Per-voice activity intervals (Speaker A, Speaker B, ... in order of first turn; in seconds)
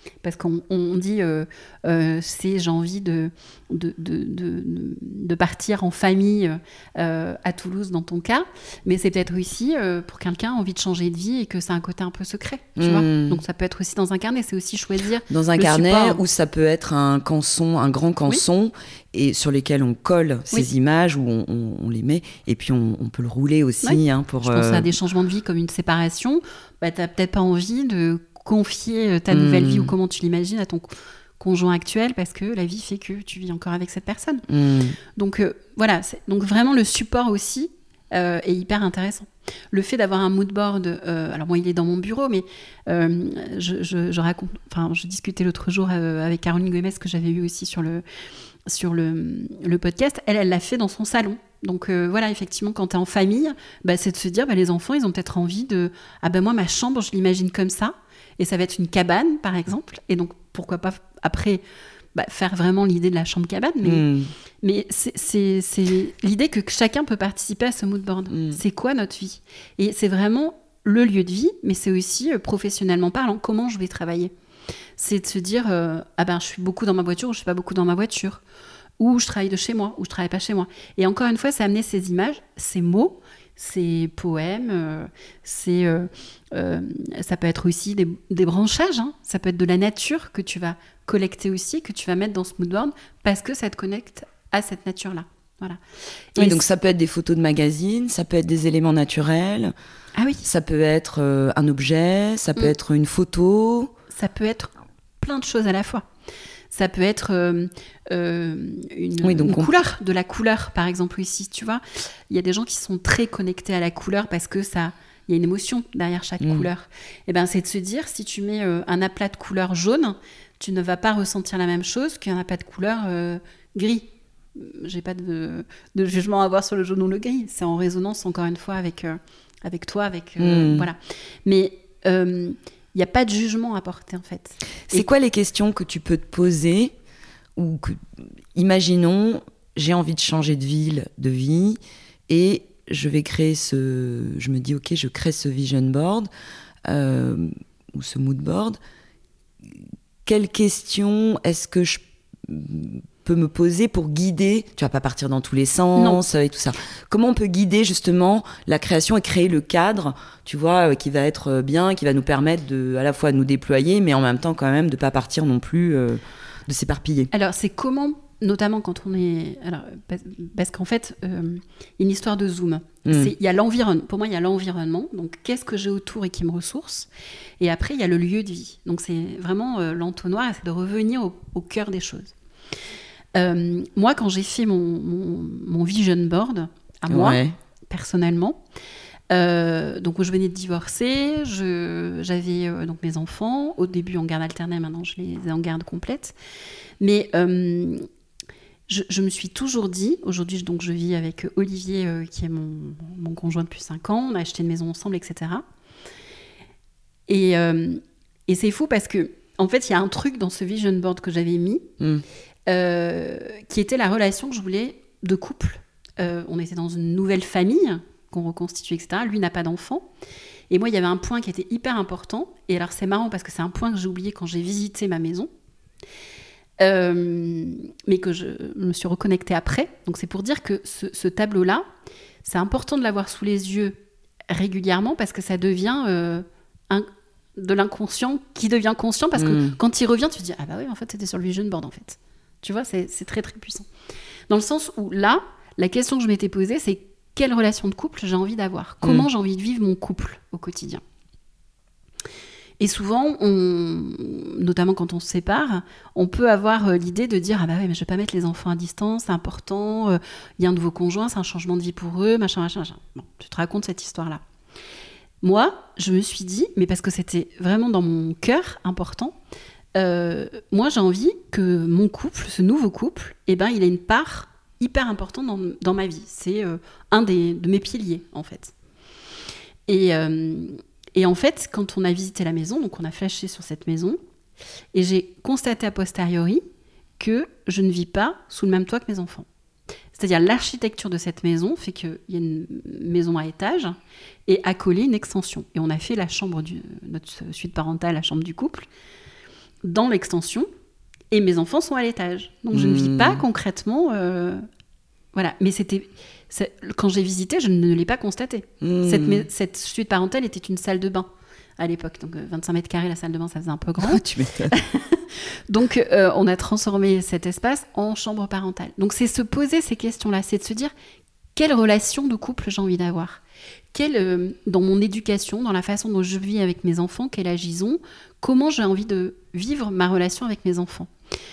Speaker A: 0.2-16.2, 23.8-34.5, 35.2-48.0, 48.7-61.6, 62.1-64.1, 64.6-74.3, 75.0-78.4, 79.0-95.8, 96.3-96.6, 100.2-100.4, 104.1-106.1, 106.7-135.1, 167.3-177.1, 177.6-182.3, 183.3-188.6, 189.3-196.3, 197.0-198.1, 198.9-205.6, 207.3-211.9, 212.7-220.1, 220.7-225.5, 226.8-231.9, 232.4-243.9, 244.5-251.0, 252.8-264.4, 265.4-269.4, 269.9-278.7, 279.9-284.2, 284.9-286.6, 287.2-289.5, 290.1-294.0, 294.5-298.9, 299.8-300.7, 301.3-304.7, 305.3-320.9, 321.6-323.4, 323.9-331.1
Speaker B: 12.8-13.4, 15.3-24.9, 29.3-29.9, 34.5-35.0, 63.8-64.3, 68.3-68.6, 96.4-99.7, 100.4-103.9, 109.2-109.8, 116.4-116.7, 130.4-130.9, 134.9-136.9, 137.6-146.3, 146.9-148.8, 149.7-167.3, 173.1-173.3, 187.1-187.6, 239.4-239.8, 302.7-303.4, 308.8-309.5, 314.0-314.8